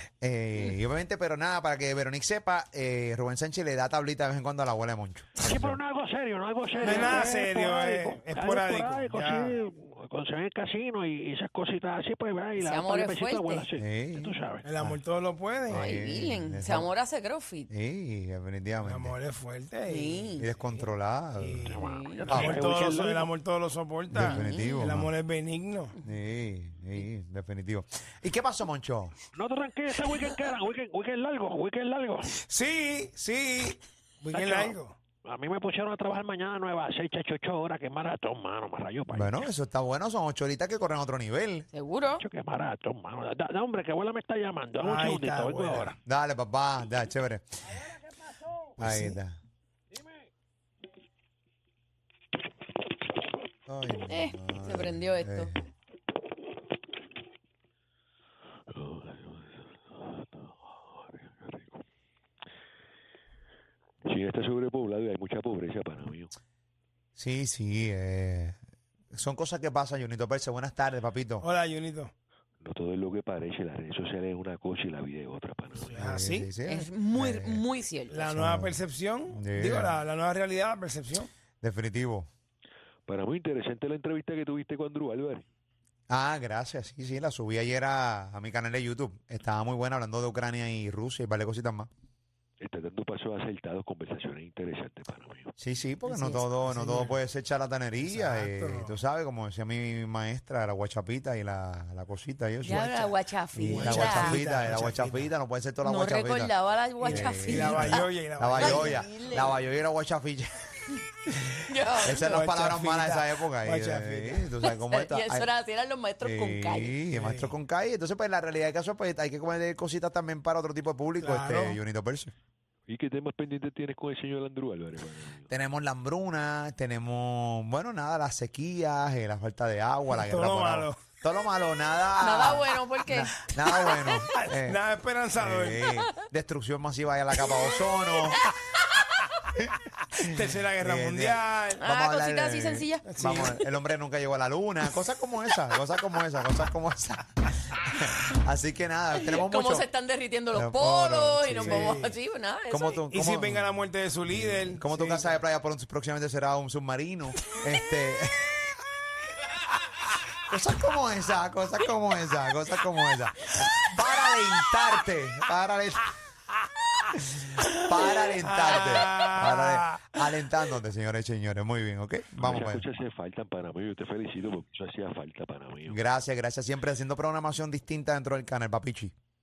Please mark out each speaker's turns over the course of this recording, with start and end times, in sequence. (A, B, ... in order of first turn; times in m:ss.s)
0:00.2-0:05.8 A
0:05.4-0:14.6 B
0:06.8-0:07.3 C
0:06.8-0:09.6 D
0:12.6-0:13.6 C
0:13.8-0:15.0 A
0:14.6-0:15.9 D
0:15.7-0:16.9 A
0:15.7-0:17.7 C
0:17.7-0:19.2 A
0:18.8-0:20.8 D
0:19.9-0:20.5 C
0:20.4-0:21.8 A
0:21.4-0:26.0 D
0:21.7-0:23.3 B
0:21.8-0:22.3 C
0:22.3-0:22.7 A
0:24.1-0:25.1 A
0:24.2-0:24.9 C
0:26.0-0:29.1 A
0:29.3-0:32.3 B
0:32.4-0:35.0 D
0:34.3-0:39.5 B
0:39.1-0:41.7 A
0:41.7-0:42.2 C
0:42.2-0:46.0 B
0:44.8-0:46.0 D
0:46.1-0:47.5 A
0:48.8-0:49.4 A
0:48.8-0:49.2 D
0:49.9-0:50.3 B
0:53.7-0:55.6 A
0:54.1-0:55.5 C
0:58.7-1:00.3 E
1:01.0-1:01.8 E
1:04.0-1:06.3 E
1:07.2-1:08.6 A
1:09.1-1:11.4 A
1:11.4-1:12.1 D
1:12.6-1:16.0 E
1:15.8-1:16.5 D
1:16.0-1:17.6 A
1:16.7-1:18.2 C
1:18.1-1:21.3 D
1:18.3-1:20.0 A
1:21.6-1:22.3 A
1:23.1-1:25.4 E
1:26.1-1:31.9 A
1:32.6-1:35.5 E
1:35.6-1:50.9 A
1:36.1-1:36.4 C
1:36.6-1:37.2 D
1:38.0-1:39.0 D
1:42.6-1:44.4 C
1:43.6-1:45.3 D
1:45.8-1:49.6 C
1:47.0-1:49.1 D
1:51.7-1:52.4 C
1:52.0-1:55.5 A
1:52.2-1:54.5 D
1:54.7-1:57.0 C
1:56.2-2:02.3 A
1:57.1-1:57.6 D
2:01.2-2:01.8 D
2:02.9-2:05.5 E
2:05.5-2:14.8 A
2:10.1-2:11.0 D
2:12.2-2:13.9 C
2:14.3-2:15.9 D
2:15.4-2:18.5 A
2:19.6-2:29.9 A
2:20.2-2:21.8 D
2:21.8-2:23.4 C
2:23.1-2:23.5 D
2:29.2-2:33.0 C
2:30.5-2:32.0 A
2:31.6-2:32.2 D
2:32.7-2:38.6 A
2:33.1-2:35.3 D
2:40.5-2:46.1 A
2:47.3-2:52.9 A
2:47.6-2:50.2 D
2:52.4-2:56.0 E
2:55.9-2:59.2 A